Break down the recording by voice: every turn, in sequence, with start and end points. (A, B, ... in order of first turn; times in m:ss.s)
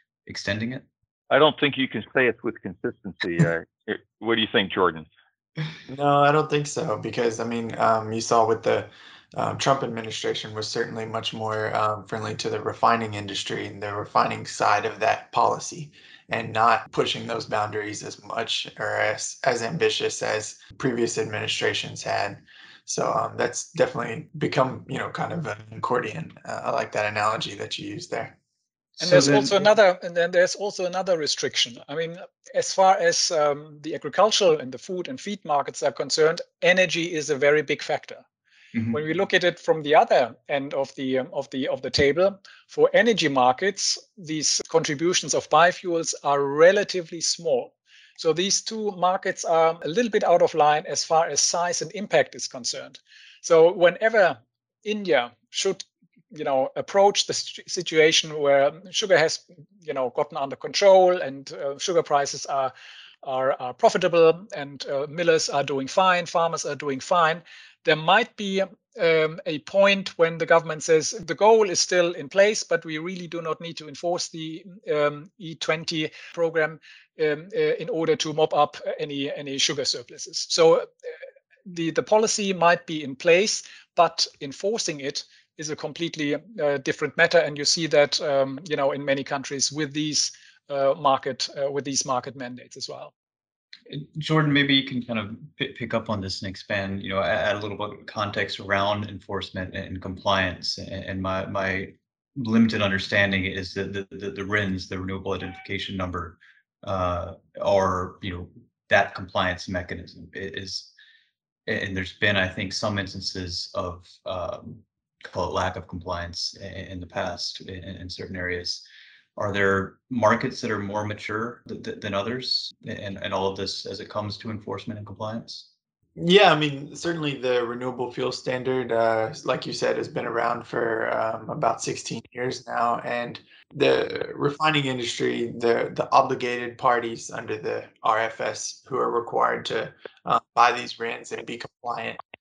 0:00.2-0:00.8 A
0:01.3-0:05.1 B
0:05.9-0:28.4 C
0:29.0-0:29.6 A
0:29.0-0:38.2 D
0:38.9-1:02.7 D
1:03.2-1:20.9 D
1:21.7-1:33.1 D
1:33.9-1:50.9 A
1:51.7-1:58.8 A
1:59.4-2:05.7 A
2:06.2-2:22.2 C